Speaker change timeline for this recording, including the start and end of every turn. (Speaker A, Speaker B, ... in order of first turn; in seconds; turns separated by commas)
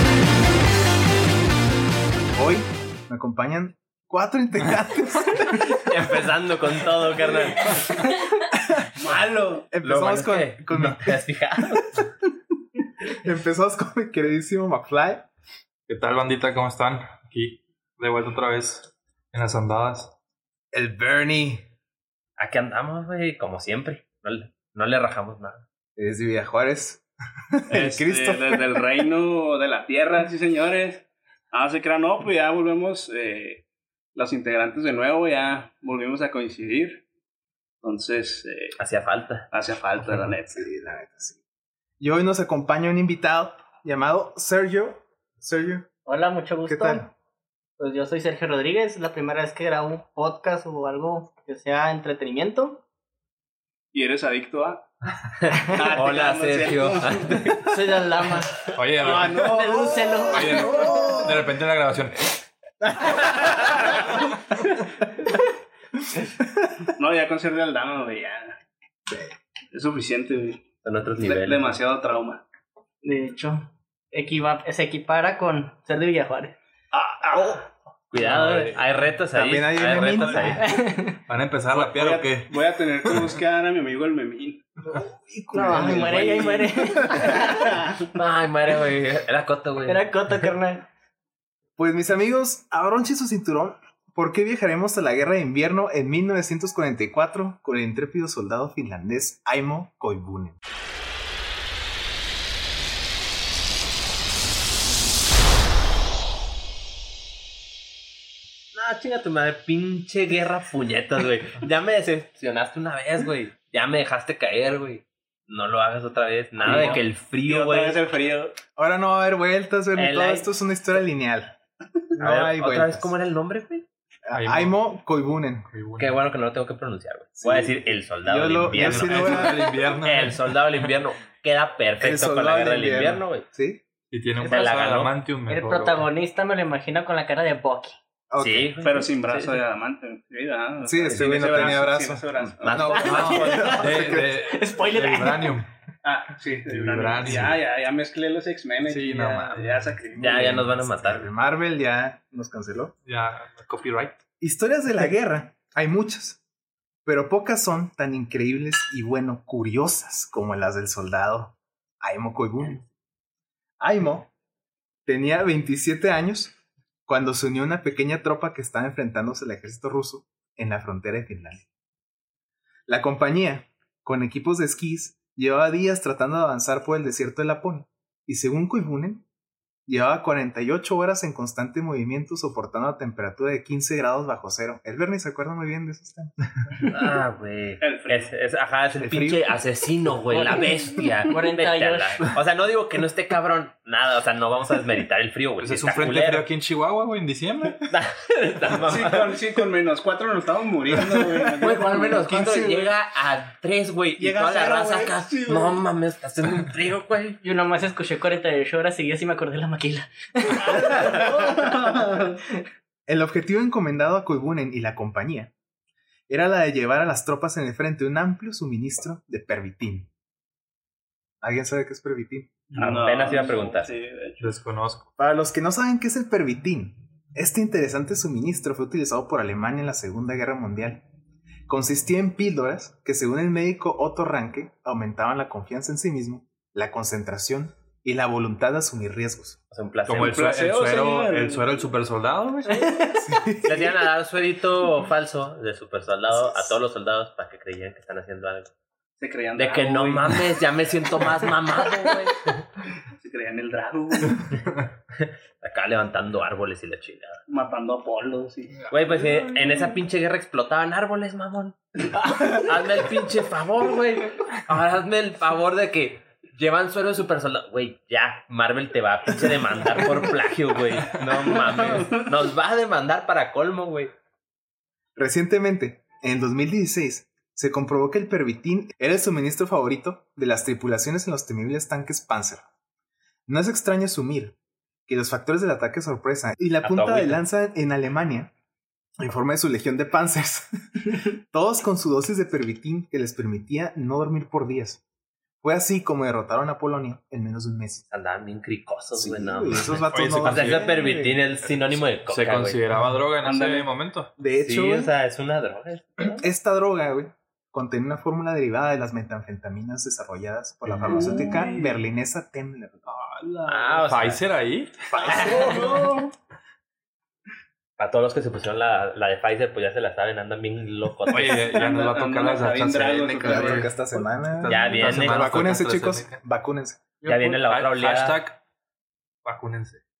Speaker A: 2.4-5.9, Speaker B: 5.7-8.0, Speaker C: 9.0-9.7, Speaker A: 9.7-11.2, Speaker B: 9.8-12.1, Speaker A: 13.1-15.3, Speaker D: 15.9-20.1, Speaker A: 20.7-21.6, Speaker B: 22.4-25.6, Speaker A: 26.0-28.6, Speaker C: 27.7-37.0, Speaker C: 37.8-38.8, Speaker B: 38.8-39.5, Speaker C: 39.5-40.7, Speaker A: 40.5-41.4, Speaker A: 42.0-45.9, Speaker E: 46.1-47.1, Speaker A: 46.6-47.1, Speaker E: 47.8-52.8, Speaker C: 53.9-54.9, Speaker B: 55.4-57.6, Speaker C: 55.6-57.5, Speaker E: 57.5-61.2, Speaker D: 58.8-59.6, Speaker C: 58.9-61.2, Speaker D: 60.3-62.4, Speaker A: 60.4-61.3, Speaker C: 67.0-68.6, Speaker C: 69.7-72.4, Speaker B: 70.8-71.8, Speaker E: 73.0-76.6, Speaker C: 76.9-77.7, Speaker B: 78.1-80.7, Speaker D: 78.2-78.8, Speaker A: 79.3-80.8, Speaker E: 80.6-81.2, Speaker D: 81.3-83.3, Speaker C: 81.7-84.7, Speaker A: 84.9-87.4, Speaker E: 85.5-87.8, Speaker C: 86.0-88.0, Speaker B: 88.1-90.0, Speaker E: 89.9-90.9, Speaker A: 91.8-100.6, Speaker B: 108.7-118.0, Speaker C: 116.6-118.5, Speaker A: 116.7-117.0, Speaker A: 118.8-121.6, Speaker B: 120.0-120.5, Speaker A: 122.1-123.1, Speaker B: 122.2-123.9, Speaker A: 124.3-125.7, Speaker D: 124.3-124.8, Speaker D: 125.7-126.2, Speaker B: 126.0-133.5, Speaker A: 127.4-129.8, Speaker D: 128.7-130.9, Speaker A: 132.0-133.8, Speaker D: 134.1-136.1, Speaker E: 134.4-134.7, Speaker B: 134.4-135.2, Speaker E: 135.5-138.0, Speaker A: 138.3-139.0, Speaker B: 138.4-139.1, Speaker C: 138.8-144.1, Speaker A: 140.8-144.4, Speaker B: 142.6-143.6, Speaker E: 142.9-145.6, Speaker D: 143.1-145.7, Speaker C: 146.0-150.7, Speaker D: 146.7-147.7, Speaker D: 148.8-149.9, Speaker A: 150.1-152.9, Speaker B: 150.2-151.3, Speaker D: 153.1-154.2, Speaker A: 154.4-156.4, Speaker A: 157.1-162.8, Speaker A: 163.8-164.3, Speaker A: 165.1-166.6, Speaker A: 167.1-171.7, Speaker A: 172.9-179.3, Speaker A: 179.9-186.3, Speaker B: 186.9-196.5, Speaker C: 187.8-188.3, Speaker A: 189.0-189.5, Speaker E: 190.3-192.3, Speaker D: 195.6-197.9, Speaker B: 197.9-199.5, Speaker C: 198.8-202.8, Speaker B: 201.6-207.4, Speaker A: 201.9-202.8, Speaker C: 204.2-205.8, Speaker E: 207.4-212.6, Speaker C: 210.6-212.4, Speaker B: 210.8-211.1, Speaker A: 213.1-215.5, Speaker A: 216.3-220.1, Speaker A: 221.4-222.6, Speaker C: 222.7-224.5, Speaker B: 222.8-223.9, Speaker D: 224.4-225.1, Speaker A: 225.2-231.0, Speaker A: 231.7-239.6, Speaker B: 239.7-240.4, Speaker D: 240.1-243.0, Speaker C: 240.2-241.9, Speaker E: 242.7-243.1, Speaker A: 243.1-244.0, Speaker B: 243.6-248.7, Speaker A: 246.4-246.7, Speaker C: 249.2-250.5, Speaker B: 249.6-252.5, Speaker C: 253.2-254.6, Speaker B: 255.1-257.4, Speaker C: 257.5-258.9, Speaker B: 258.9-274.1, Speaker C: 262.3-262.5, Speaker C: 271.5-272.3, Speaker A: 275.2-282.6, Speaker A: 283.5-284.6, Speaker A: 285.1-288.5, Speaker B: 286.8-287.4, Speaker A: 289.2-295.0, Speaker A: 295.6-298.1, Speaker B: 298.1-302.8, Speaker A: 299.1-301.5, Speaker D: 299.9-301.1, Speaker D: 302.3-304.3, Speaker C: 303.4-303.9, Speaker A: 304.4-305.1, Speaker B: 304.6-306.5, Speaker A: 306.3-313.3, Speaker C: 311.1-312.0, Speaker D: 311.1-311.7, Speaker C: 313.4-314.1, Speaker B: 313.7-314.4, Speaker D: 314.1-315.1, Speaker A: 315.1-316.1, Speaker B: 315.2-316.0, Speaker C: 315.2-316.3, Speaker B: 318.0-321.8, Speaker D: 321.3-326.4, Speaker C: 321.4-323.9, Speaker A: 323.4-327.0, Speaker B: 324.7-325.7, Speaker E: 327.2-327.6, Speaker B: 327.3-328.4, Speaker D: 327.3-328.6, Speaker D: 329.4-330.0